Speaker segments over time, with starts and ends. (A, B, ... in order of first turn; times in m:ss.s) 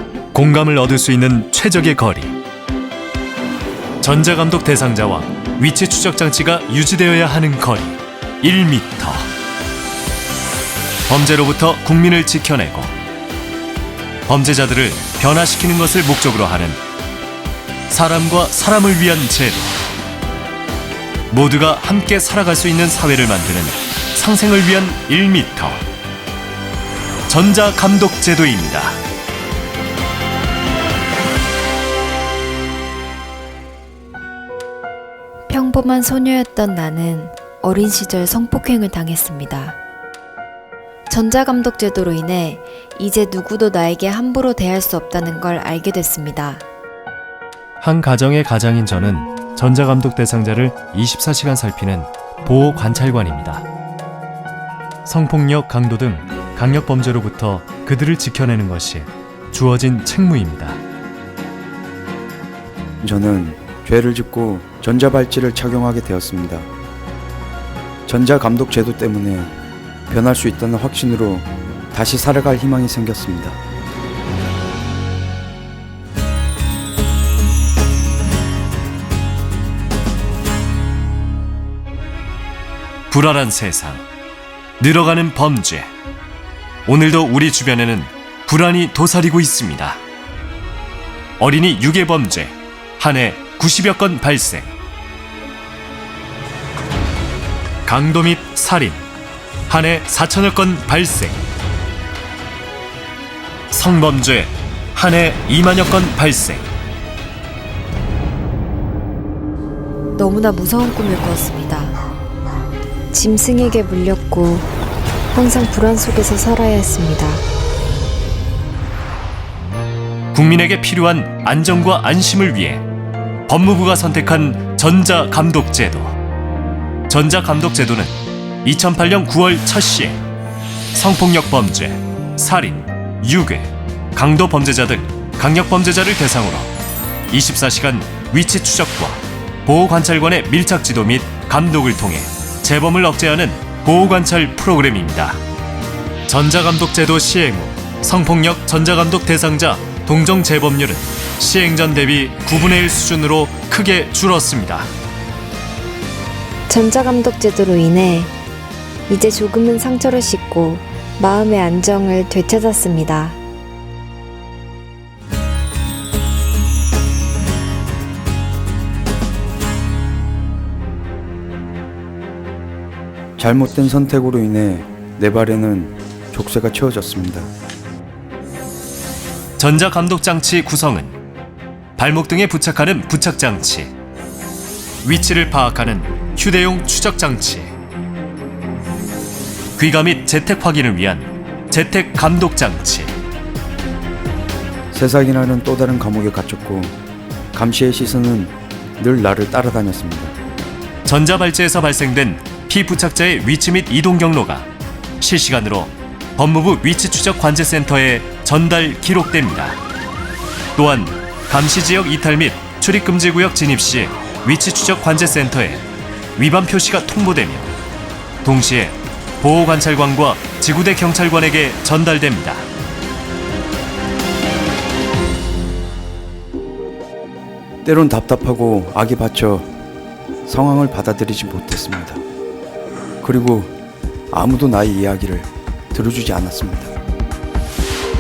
0:00.3-0:02.4 A
0:04.0-0:09.3 A
0:11.1-0:12.9 A
0:14.3-0:16.8 A
0:17.9-0:19.8 A
0:21.3-0:25.8 A
0:27.3-0:29.0 A
0:35.5-0:39.8 B
0:41.1-0:46.6 B
0:47.8-0:53.7 A
0:55.0-1:00.8 A
1:03.0-1:06.7 C
1:08.1-1:09.6 C
1:10.1-1:13.6 C
1:23.1-1:24.0 A
1:24.8-1:25.9 A
1:26.9-1:30.0 A
1:31.4-1:34.7 A
1:37.9-1:39.0 A
1:39.7-1:41.4 A
1:43.7-1:46.6 A
1:50.2-1:52.0 B
1:53.1-1:54.7 B
1:55.3-1:57.4 B
2:00.3-2:02.8 A
2:03.5-2:06.2 A
2:07.1-2:10.2 A
2:10.9-2:16.7 A
2:17.3-2:25.4 A
2:26.3-2:34.9 A
2:36.7-2:38.3 B
2:39.1-2:43.4 B
2:53.4-2:57.5 C
2:59.6-3:01.2 A
3:02.0-3:03.9 A
3:05.0-3:07.7 A
3:09.8-3:13.2 A
3:14.9-3:17.0 C
3:17.5-3:20.3 C
3:21.0-3:24.7 A
3:25.2-3:29.8 A
3:30.8-3:35.8 A
3:36.4-3:37.7 A
3:38.4-3:42.7 A
3:47.8-3:49.7 C
3:50.5-3:52.2 C
3:53.2-3:53.8 C
3:54.3-3:56.9 C